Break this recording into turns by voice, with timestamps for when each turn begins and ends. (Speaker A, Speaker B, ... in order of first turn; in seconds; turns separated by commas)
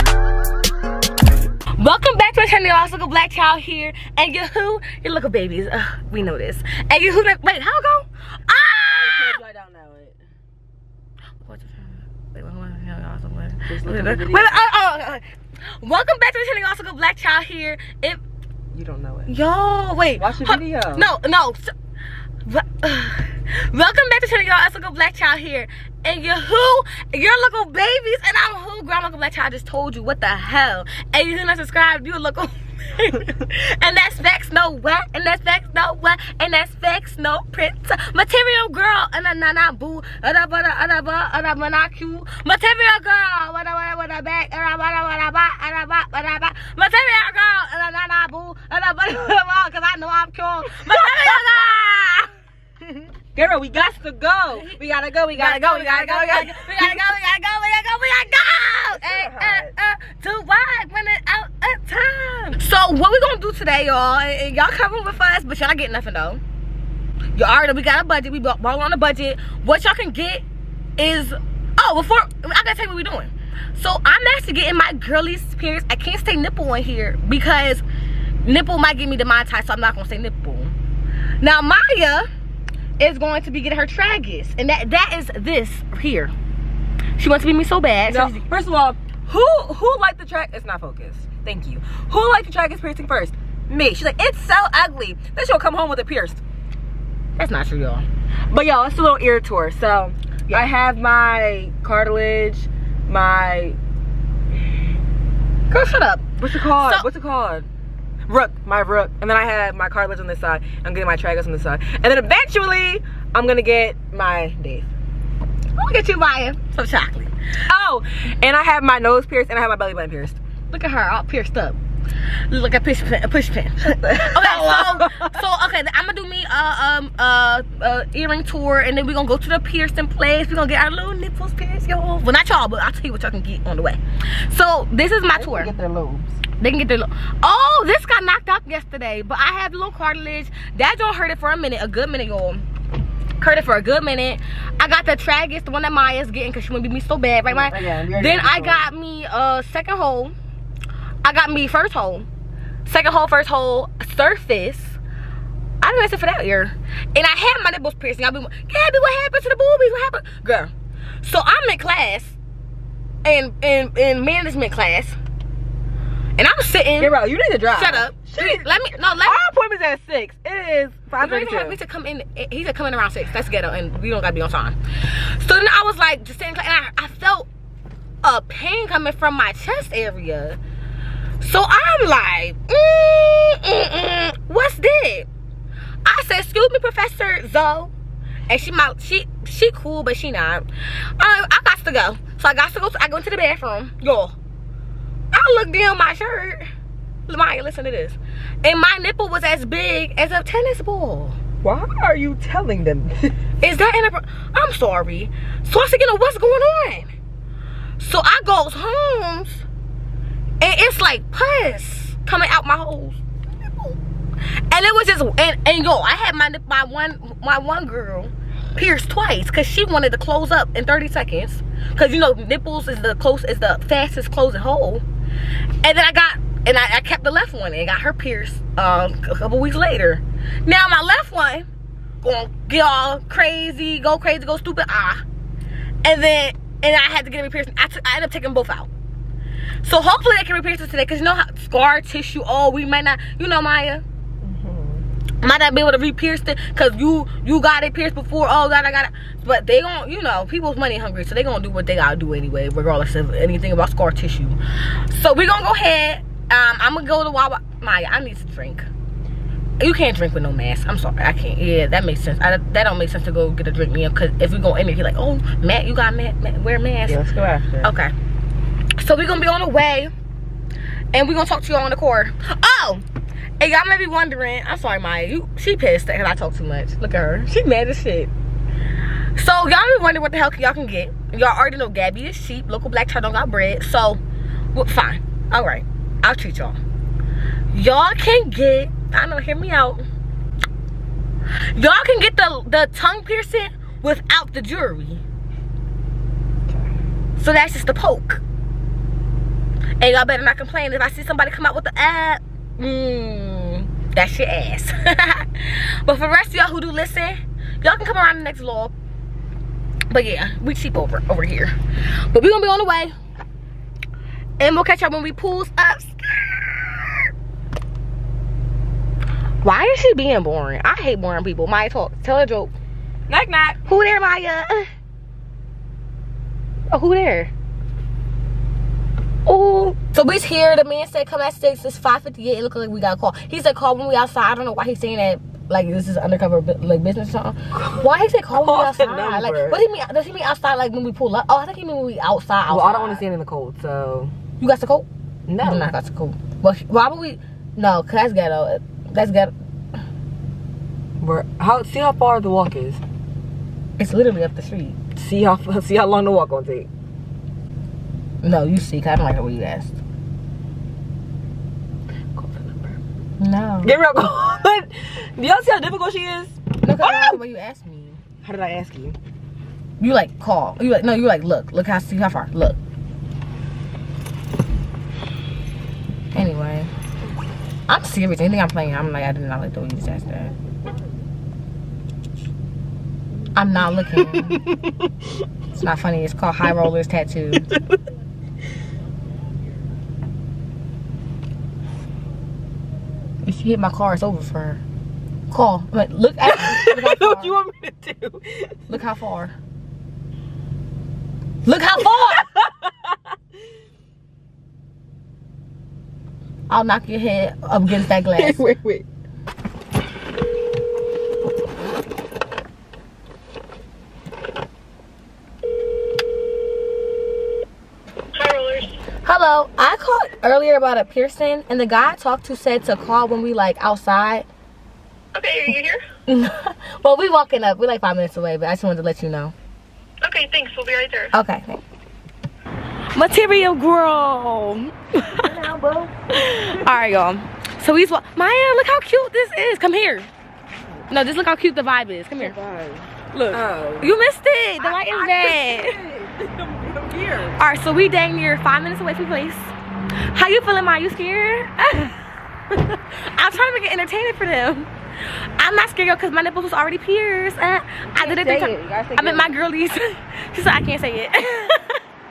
Speaker A: 1.8-9.4, Speaker B: 8.8-10.2, Speaker A: 11.4-15.2, Speaker B: 13.7-14.6, Speaker A: 15.8-18.2, Speaker B: 18.7-19.3, Speaker A: 19.2-21.7, Speaker B: 20.1-21.1, Speaker A: 22.4-52.3, Speaker B: 53.3-57.0, Speaker A: 54.5-54.8, Speaker A: 55.3-66.4, Speaker B: 59.0-59.7, Speaker A: 67.3-70.4, Speaker A: 71.0-77.8, Speaker A: 78.4-80.7, Speaker A: 81.4-82.3, Speaker A: 83.0-86.3, Speaker A: 87.2-88.4, Speaker B: 88.1-96.4, Speaker A: 97.4-98.0, Speaker B: 98.5-103.8, Speaker A: 105.7-107.1, Speaker B: 106.4-107.7, Speaker B: 108.3-114.9, Speaker A: 115.8-117.3, Speaker B: 117.7-120.4, Speaker A: 120.7-121.8, Speaker A: 122.5-135.7, Speaker B: 124.0-125.3, Speaker B: 135.3-136.4, Speaker A: 136.6-142.6, Speaker A: 143.4-150.3, Speaker B: 147.4-148.9, Speaker A: 151.2-152.3, Speaker A: 152.8-155.0, Speaker A: 155.8-162.3, Speaker A: 163.2-165.2, Speaker A: 166.4-167.1, Speaker B: 167.0-171.8, Speaker A: 167.7-169.4, Speaker A: 171.2-177.5, Speaker A: 178.2-180.6, Speaker A: 181.4-185.3, Speaker A: 186.0-187.9, Speaker A: 188.5-194.3, Speaker A: 195.3-196.6, Speaker A: 197.3-201.4, Speaker B: 201.6-203.3, Speaker A: 203.6-207.1, Speaker A: 208.0-209.6, Speaker A: 210.6-213.2, Speaker A: 214.7-225.0, Speaker A: 225.8-231.7, Speaker A: 232.2-235.2, Speaker A: 236.0-238.9, Speaker A: 239.8-244.0, Speaker B: 244.4-245.0, Speaker A: 245.4-258.9, Speaker A: 259.8-267.2, Speaker B: 267.1-267.9, Speaker A: 267.8-268.1, Speaker A: 269.0-270.1, Speaker A: 271.1-273.0, Speaker A: 273.6-278.3, Speaker A: 279.3-284.2, Speaker A: 284.7-286.8, Speaker A: 287.7-290.0, Speaker A: 291.6-295.2, Speaker A: 297.4-298.4, Speaker A: 300.0-308.9, Speaker A: 310.1-313.1, Speaker A: 314.6-317.3, Speaker A: 319.6-322.7, Speaker B: 323.3-323.8, Speaker A: 323.9-324.9, Speaker A: 326.9-327.5, Speaker A: 329.4-343.2, Speaker B: 338.5-339.8, Speaker B: 342.7-344.3, Speaker A: 344.6-345.1, Speaker B: 345.5-345.9, Speaker A: 345.6-349.5, Speaker B: 351.2-353.0, Speaker A: 354.0-355.0, Speaker B: 355.1-356.9, Speaker A: 358.4-359.9, Speaker B: 362.3-363.0, Speaker A: 363.4-363.9, Speaker B: 363.8-367.4, Speaker A: 366.8-368.2, Speaker B: 368.4-369.2, Speaker A: 370.0-372.8, Speaker A: 376.3-376.9, Speaker A: 377.9-380.5, Speaker A: 383.5-384.6, Speaker A: 385.7-387.7, Speaker A: 393.4-394.8, Speaker A: 395.5-397.6, Speaker B: 396.4-398.8, Speaker A: 398.9-399.5, Speaker A: 401.6-402.5, Speaker A: 406.7-408.6, Speaker B: 408.4-409.0, Speaker C: 418.4-418.9, Speaker A: 419.2-424.5, Speaker C: 425.3-426.0, Speaker A: 426.3-429.5, Speaker C: 430.2-431.3, Speaker A: 431.3-431.8, Speaker A: 433.1-435.5, Speaker B: 435.3-436.1, Speaker A: 436.3-440.3, Speaker A: 441.1-442.5, Speaker B: 442.4-444.1, Speaker A: 443.3-446.0, Speaker B: 444.8-447.6, Speaker A: 447.6-449.7, Speaker A: 450.2-452.2, Speaker A: 452.7-454.9, Speaker A: 455.6-462.0, Speaker B: 458.1-459.5